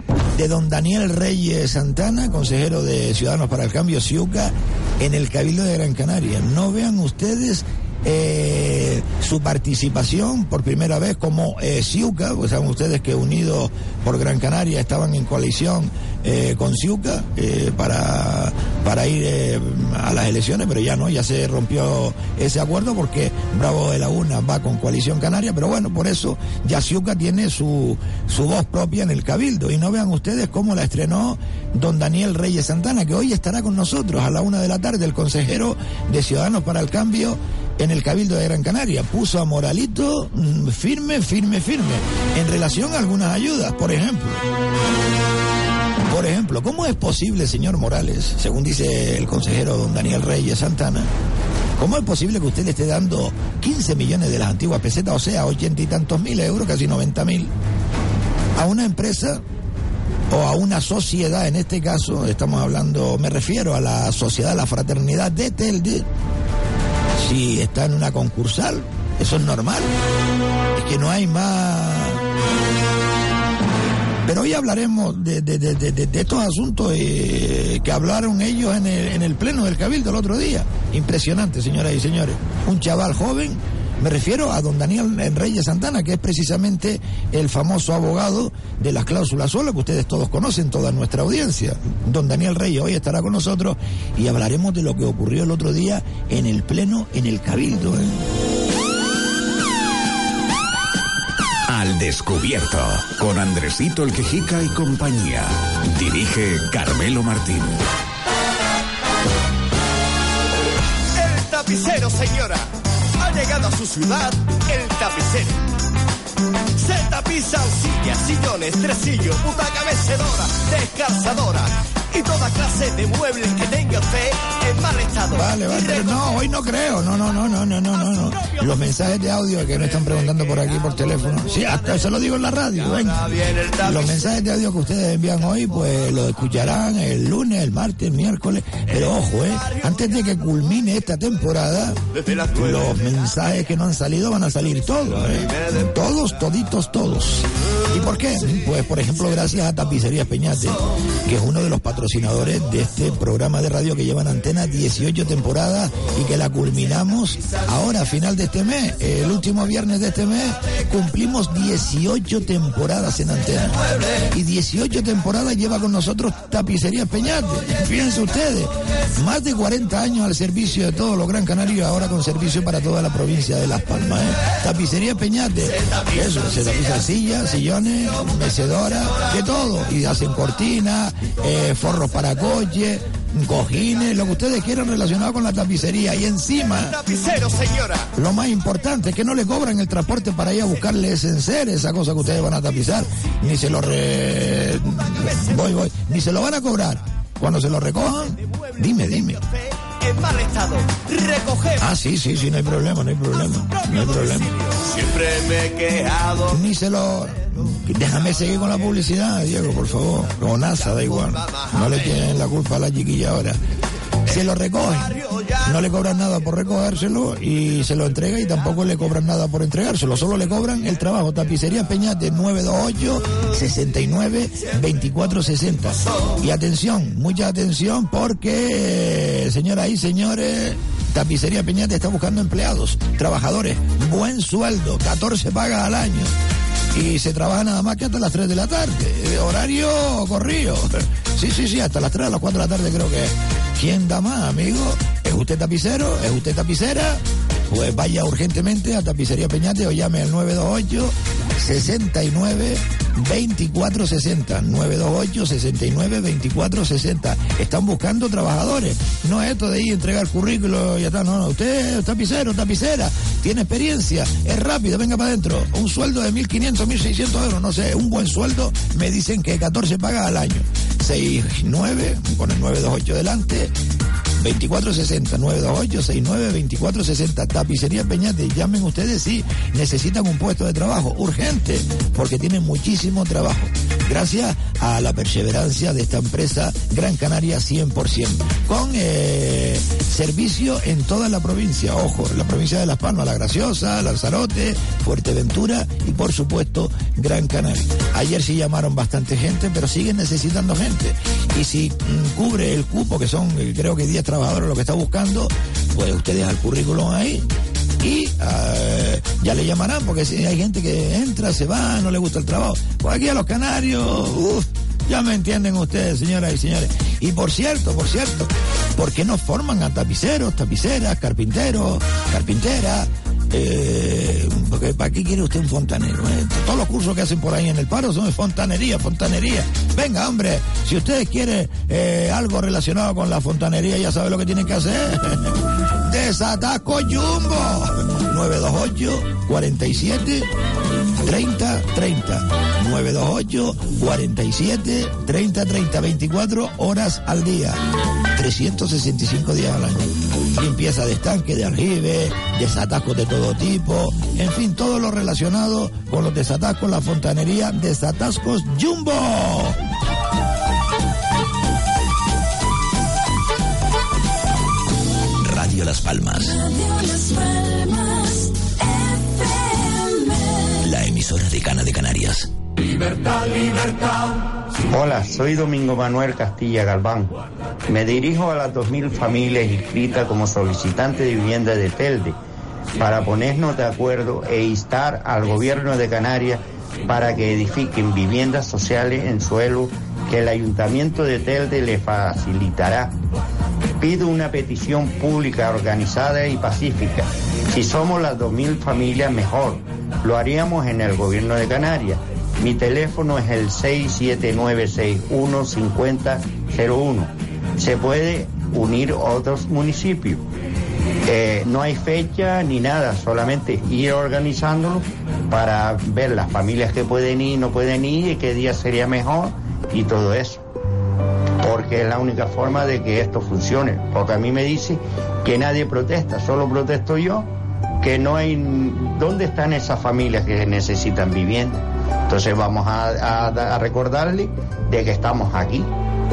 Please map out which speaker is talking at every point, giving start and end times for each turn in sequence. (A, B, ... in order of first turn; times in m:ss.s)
0:00.3-0:44.4 A
0:46.1-0:51.1 A
0:51.8-0:57.5 A
0:58.6-0:59.4 A
1:00.3-1:06.0 A
1:07.2-1:09.9 A
1:10.7-1:12.2 A
1:14.2-1:38.2 A
1:41.7-1:47.8 B
1:51.2-1:52.6 C
1:53.2-1:55.6 C
1:56.8-2:06.2 C
2:05.3-2:22.0 A
2:13.4-2:14.2 C
2:22.5-3:07.0 A
3:06.9-3:08.1 C
3:08.1-3:19.4 A
3:19.0-3:21.8 C
3:21.8-3:24.5 A
3:23.8-3:26.5 C
3:26.5-3:33.6 A
3:31.0-3:32.1 C
3:34.3-3:56.3 A
3:35.2-3:35.6 C
3:56.9-4:33.7 A
4:34.4-5:07.4 A
5:08.0-5:35.5 A
5:36.0-5:40.5 A
5:41.2-5:47.8 A
5:48.3-5:59.8 A
6:05.4-6:06.6 D
6:10.8-6:12.5 D
6:14.9-6:17.3 E
6:17.9-6:22.4 E
6:23.0-6:33.1 E
6:34.0-6:50.4 E
6:51.2-7:00.6 E
7:01.6-7:07.5 E
7:08.0-7:15.9 E